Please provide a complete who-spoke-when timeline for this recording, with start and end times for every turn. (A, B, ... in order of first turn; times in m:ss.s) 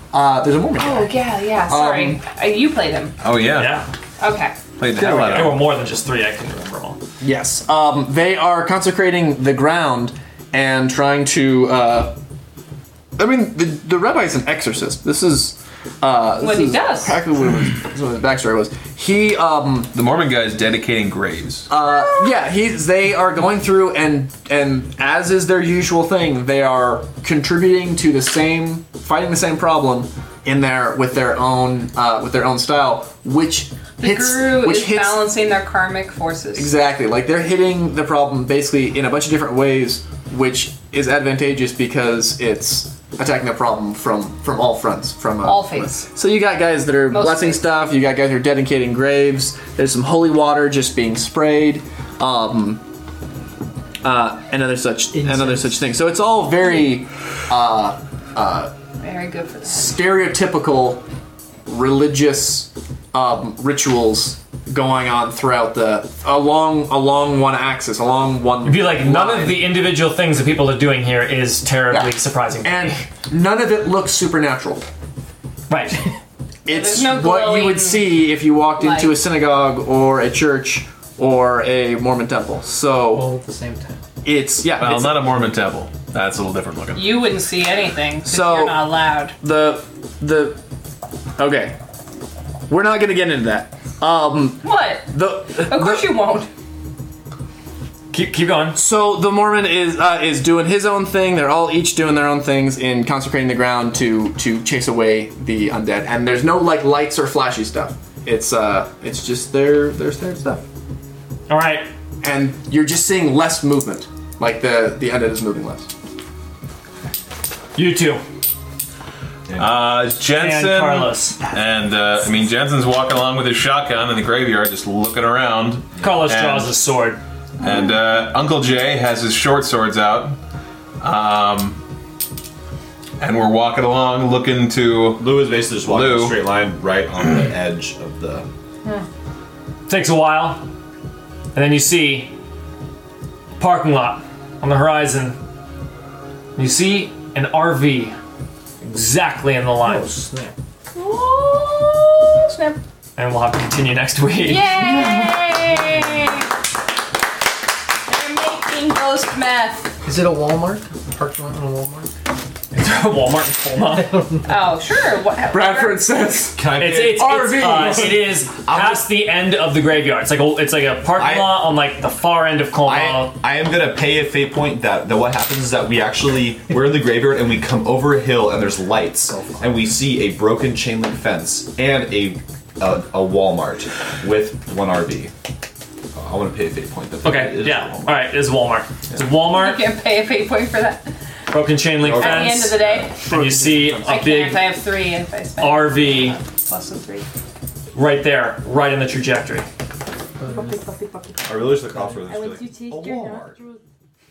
0:00.1-0:01.2 A
0:00.8-0:03.2 B
0:01.7-0:02.2 A
0:03.2-0:03.8 C
0:03.5-0:03.9 D
0:04.2-0:04.6 B
0:04.8-0:05.6 C
0:05.0-0:05.6 A
0:05.0-0:07.0 D
0:07.2-0:12.1 A
0:13.2-0:19.9 A
0:16.4-0:17.2 B
0:19.9-0:21.7 C
0:21.7-0:35.3 A
0:34.0-0:36.7 B
0:36.6-0:52.8 A
0:45.4-0:46.1 B
0:47.1-0:47.9 B
0:54.0-0:58.7 A
0:55.2-0:55.8 E
0:59.0-1:00.0 B
0:59.7-1:01.0 A
1:01.7-1:09.7 A
1:08.6-1:13.0 D
1:11.9-1:14.8 A
1:15.7-1:16.1 D
1:16.6-1:23.3 A
1:16.7-1:19.2 B
1:23.1-1:24.0 E
1:24.2-1:25.3 A
1:24.6-1:27.3 C
1:27.0-1:29.4 B
1:28.3-1:30.6 A
1:31.4-1:31.8 A
1:32.7-1:36.2 A
1:34.6-1:36.5 B
1:38.1-1:38.8 D
1:38.8-1:50.7 A
1:51.5-1:51.9 D
1:52.2-1:55.9 A
1:57.8-1:58.2 D
1:59.5-1:59.7 F
1:59.6-2:06.7 C
2:00.3-2:01.4 D
2:06.0-2:07.2 D
2:07.6-2:10.4 C
2:11.0-2:11.8 C
2:13.2-2:16.4 C
2:15.2-2:18.5 F
2:19.9-2:20.6 D
2:21.5-2:22.3 D
2:23.6-2:25.4 D
2:26.6-2:28.2 D
2:28.8-2:30.2 D
2:29.8-2:30.5 E
2:31.0-2:32.8 B
2:33.2-2:34.7 D
2:34.4-2:36.5 B
2:35.0-2:35.4 E
2:38.0-2:40.0 B
2:40.0-2:42.1 E
2:42.7-2:44.2 D
2:44.1-2:44.5 E
2:44.5-2:46.1 B
2:45.5-2:48.3 A
2:46.6-2:49.1 F
2:46.7-2:53.4 D
2:51.2-2:51.6 F
2:52.8-3:05.3 F
2:59.3-2:59.8 E
3:06.1-3:08.3 F
3:07.2-3:09.8 D
3:09.4-3:11.1 B
3:11.5-3:14.7 D
3:12.0-3:13.1 F
3:12.1-3:13.2 B
3:13.2-3:14.2 A
3:14.0-3:17.3 B
3:15.6-3:16.4 D
3:18.0-3:19.7 D
3:20.4-3:20.8 E
3:20.4-3:21.4 B
3:21.4-3:23.6 F
3:22.3-3:23.8 B